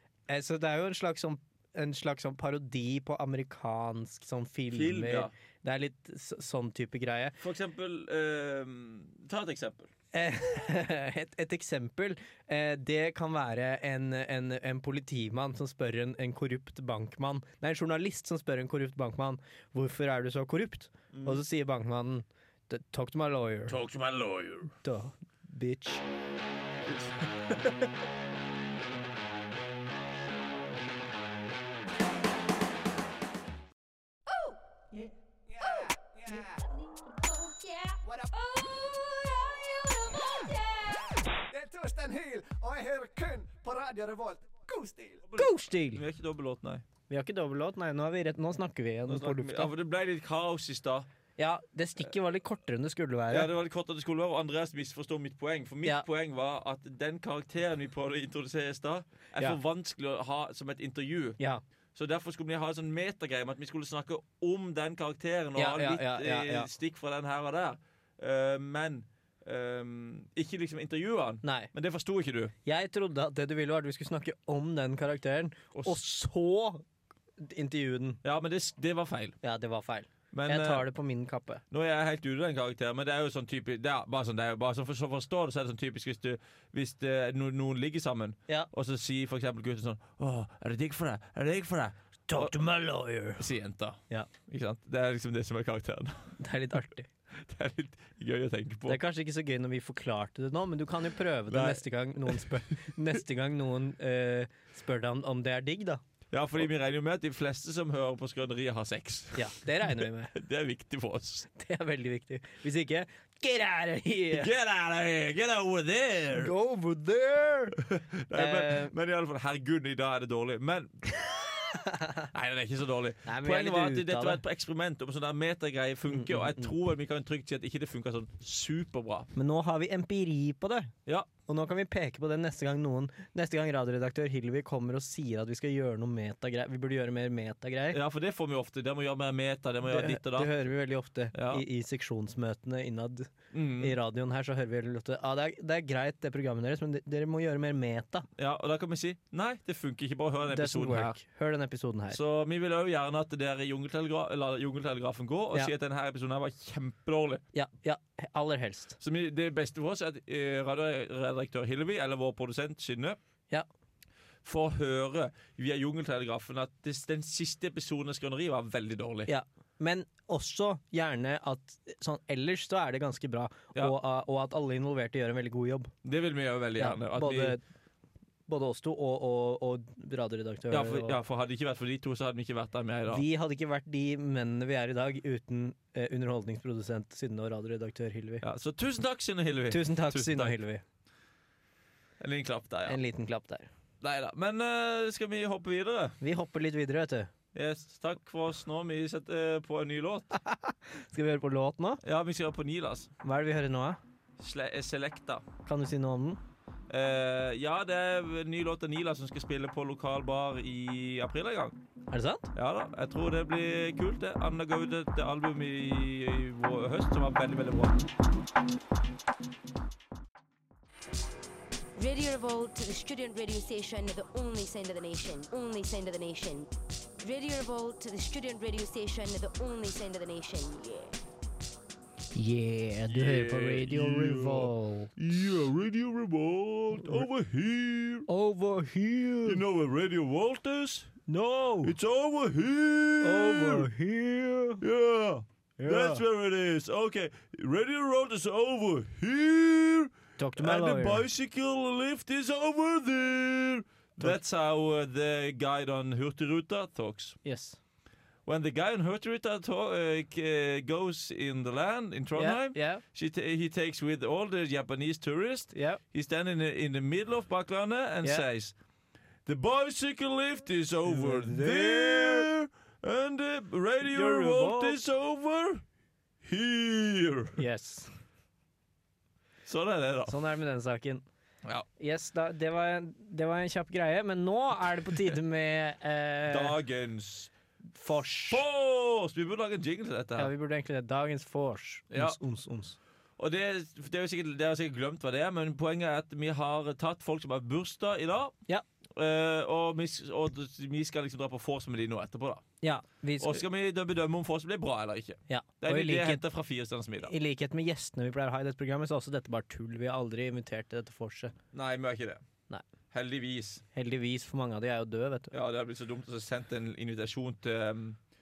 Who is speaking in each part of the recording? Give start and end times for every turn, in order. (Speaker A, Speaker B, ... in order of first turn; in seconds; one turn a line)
Speaker A: 0.3-7.4
Speaker B: 4.7-5.3
Speaker B: 7.4-9.9
Speaker A: 10.1-23.8
Speaker B: 21.1-21.4
Speaker B: 23.7-24.7
Speaker A: 24.8-26.0
Speaker B: 26.9-27.9
Speaker C: 34.3-45.2
Speaker B: 45.3-46.9
Speaker A: 45.4-46.0
Speaker A: 47.1-49.7
Speaker B: 49.1-51.1
Speaker A: 51.4-53.5
Speaker B: 53.3-61.4
Speaker B: 62.0-72.5
Speaker A: 65.6-66.7
Speaker A: 71.4-71.7
Speaker A: 72.7-76.8
Speaker B: 75.7-76.0
Speaker A: 77.4-78.2
Speaker B: 78.2-79.4
Speaker A: 79.4-81.6
Speaker B: 80.3-80.9
Speaker B: 81.7-92.5
Speaker A: 92.3-93.5
Speaker B: 93.4-96.4
Speaker A: 96.4-97.1
Speaker B: 97.3-99.0
Speaker A: 98.9-106.0
Speaker B: 101.5-102.9
Speaker B: 106.3-111.5
Speaker A: 109.3-110.3
Speaker A: 111.5-114.5
Speaker B: 114.3-116.5
Speaker A: 116.3-117.8
Speaker B: 117.8-121.8
Speaker A: 118.3-118.9
Speaker A: 121.7-122.3
Speaker B: 122.3-129.3
Speaker A: 123.2-124.4
Speaker A: 126.1-126.8
Speaker A: 129.3-130.9
Speaker A: 131.5-138.0
Speaker B: 137.9-140.6
Speaker A: 139.8-148.3
Speaker B: 141.3-141.6
Speaker B: 143.5-144.0
Speaker B: 148.4-151.2
Speaker A: 150.5-152.2
Speaker B: 152.1-157.4
Speaker A: 157.5-159.0
Speaker B: 159.0-163.2
Speaker B: 164.4-169.3
Speaker A: 169.3-175.9
Speaker B: 176.1-177.6
Speaker A: 176.8-177.6
Speaker A: 178.5-181.2
Speaker B: 180.7-183.2
Speaker A: 183.1-188.4
Speaker B: 188.4-190.6
Speaker A: 189.7-190.8
Speaker B: 192.2-193.0
Speaker A: 192.9-193.7
Speaker B: 194.0-196.2
Speaker A: 196.2-197.3
Speaker B: 197.5-200.4
Speaker A: 200.4-202.0
Speaker B: 202.0-203.1
Speaker A: 203.2-204.0
Speaker B: 204.4-205.4
Speaker A: 205.7-206.4
Speaker B: 206.9-211.8
Speaker A: 212.1-212.5
Speaker B: 212.6-218.0
Speaker D: 222.0-226.7
Speaker D: 227.2-231.2
Speaker A: 232.3-235.1
Speaker B: 233.1-238.3
Speaker A: 237.0-237.3
Speaker A: 238.3-239.6
Speaker B: 239.4-241.2
Speaker A: 241.3-241.9
Speaker B: 241.8-243.9
Speaker A: 243.2-244.8
Speaker B: 244.8-257.4
Speaker A: 245.8-246.2
Speaker A: 250.4-251.2
Speaker A: 257.4-257.8
Speaker B: 258.5-268.7
Speaker A: 262.4-263.0
Speaker A: 265.7-266.0
Speaker B: 269.5-275.8
Speaker A: 271.1-272.5
Speaker A: 274.0-275.0
Speaker B: 276.4-277.6
Speaker A: 277.6-278.1
Speaker B: 279.7-280.4
Speaker A: 280.3-281.2
Speaker A: 282.0-286.8
Speaker B: 286.5-287.5
Speaker A: 287.9-288.6
Speaker B: 288.5-290.5
Speaker A: 290.4-293.0
Speaker B: 292.1-292.4
Speaker B: 293.4-298.6
Speaker B: 299.2-302.6
Speaker A: 302.8-303.6
Speaker B: 303.4-307.3
Speaker A: 305.5-306.4
Speaker A: 307.2-311.6
Speaker B: 311.7-312.4
Speaker B: 313.1-313.8
Speaker A: 313.9-315.5
Speaker B: 315.5-318.2